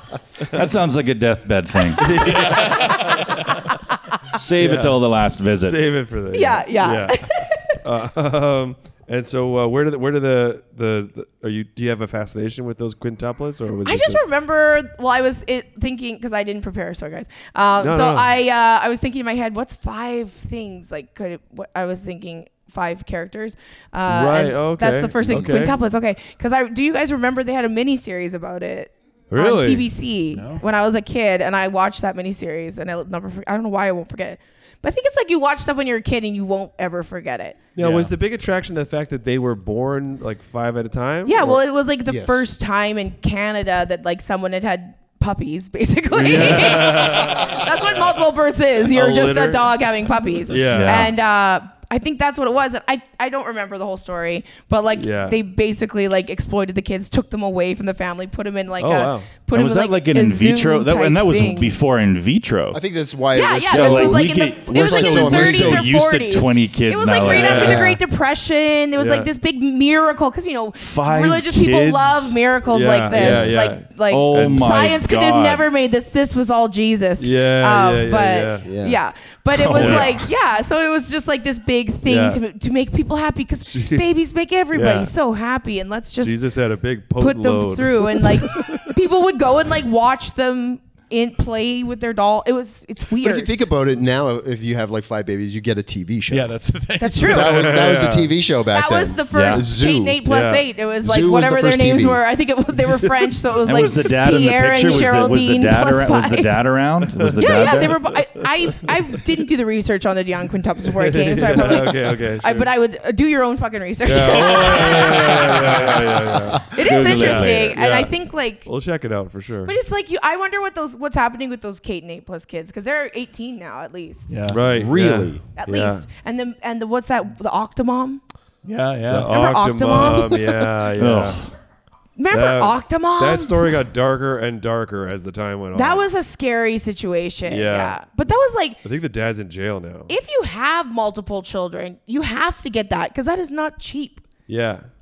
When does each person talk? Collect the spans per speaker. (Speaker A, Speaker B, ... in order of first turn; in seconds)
Speaker A: 0.5-2.3, 4.3-5.8, 50.7-51.1, 59.5-62.8, 63.7-67.9, 70.8-72.4, 74.1-75.6, 79.5-80.3, 99.3-99.6, 103.7-107.9, 116.8-117.7, 131.0-131.5
Speaker B: 2.0-3.3, 4.6-5.0, 5.5-7.2, 7.7-14.3, 17.8-18.3, 24.1-25.8, 29.3-29.9, 37.8-41.6, 46.1-47.7, 48.8-49.7, 50.5-51.0, 55.0-55.4, 58.8-59.3, 67.2-68.0, 69.0-69.3, 72.7-74.7, 77.2-78.7, 79.7-80.1, 82.0-82.4, 83.7-84.1, 84.7-85.1, 86.2-88.9, 97.3-98.3, 100.2-100.6, 102.8-103.3, 107.2-108.1, 111.0-112.7, 114.0-118.1, 118.6-119.7, 124.5-126.0, 129.1-131.4, 132.3-136.1, 137.4-138.0, 138.8-140.1, 144.5-144.9
Speaker C: 2.4-3.2, 25.4-25.7, 30.3-30.6, 37.8-38.1, 96.3-97.5, 124.3-124.8, 128.6-129.3
Speaker D: 6.3-7.8, 13.8-37.6, 41.2-61.7, 63.3-86.4, 87.2-93.7, 97.0-97.9, 98.7-106.6, 107.4-115.8, 116.7-118.7, 119.6-124.4, 125.5-128.2, 129.2-130.5, 132.2-133.7, 135.7-138.8, 140.1-144.2
Speaker E: 42.1-42.4, 62.7-65.9, 73.1-73.5, 78.6-79.0, 93.2-96.6, 97.2-100.3, 101.0-102.2, 124.5-125.4